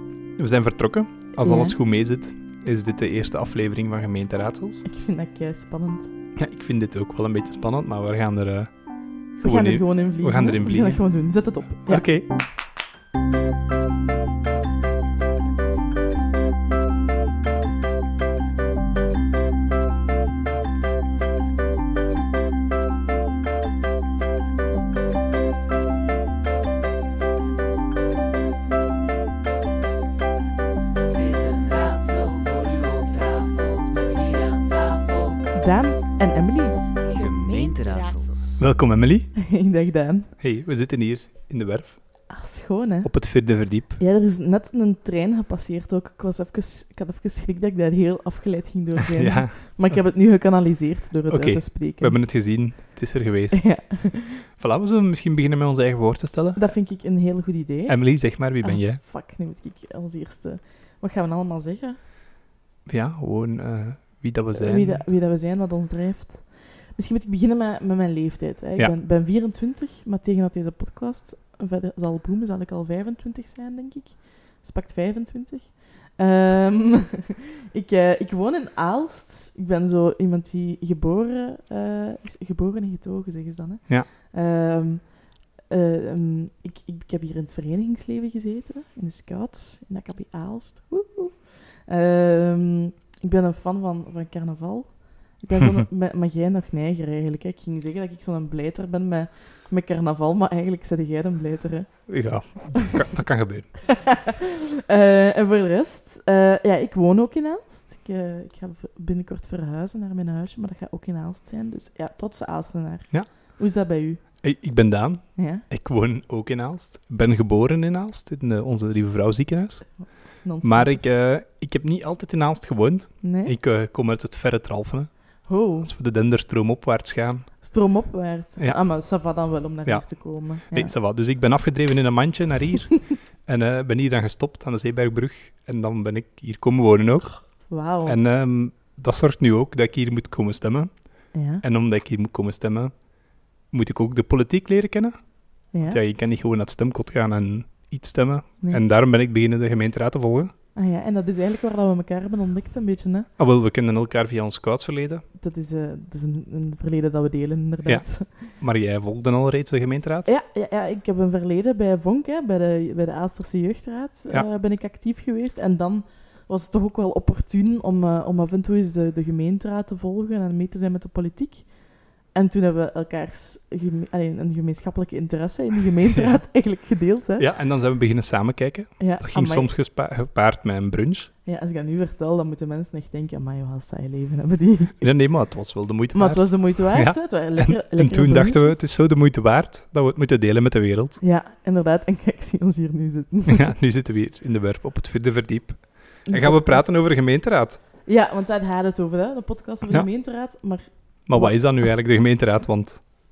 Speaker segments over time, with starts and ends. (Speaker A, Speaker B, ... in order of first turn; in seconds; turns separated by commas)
Speaker A: 0.4-4.8, Speaker B: 1.4-1.8, Speaker B: 4.8-6.1, Speaker A: 6.3-8.7, Speaker B: 9.4-12.0, Speaker A: 9.4-11.0, Speaker A: 11.8-12.2, Speaker C: 31.1-35.4, Speaker B: 35.5-36.8, Speaker C: 37.0-38.6, Speaker A: 38.6-39.3, Speaker B: 39.4-40.3, Speaker A: 40.4-42.0, Speaker B: 42.3-43.3, Speaker A: 43.0-44.0, Speaker B: 44.0-52.2, Speaker A: 49.1-50.0, Speaker A: 51.3-56.8, Speaker B: 53.5-54.5, Speaker B: 56.5-62.0, Speaker A: 57.9-59.0, Speaker A: 62.9-65.0, Speaker B: 64.5-102.6, Speaker A: 95.5-95.8, Speaker A: 102.1-103.8, Speaker B: 103.9-114.4, Speaker A: 114.4-127.5, Speaker B: 115.3-115.6, Speaker B: 120.0-121.1, Speaker B: 123.2-123.5, Speaker B: 125.5-125.9, Speaker B: 127.6-130.9, Speaker A: 129.8-150.5, Speaker B: 137.7-138.2, Speaker B: 141.3-141.6, Speaker B: 145.7-146.0, Speaker B: 150.7-153.3, Speaker A: 153.4-155.2, Speaker B: 155.4-158.6, Speaker A: 157.8-160.3, Speaker B: 160.2-177.5, Speaker A: 177.4-181.3, Speaker B: 179.0-179.7, Speaker B: 181.4-185.1, Speaker A: 185.0-191.2, Speaker B: 186.1-188.8, Speaker B: 191.2-193.7, Speaker A: 193.5-197.8, Speaker B: 196.2-197.1, Speaker B: 198.1-201.7, Speaker A: 201.3-203.0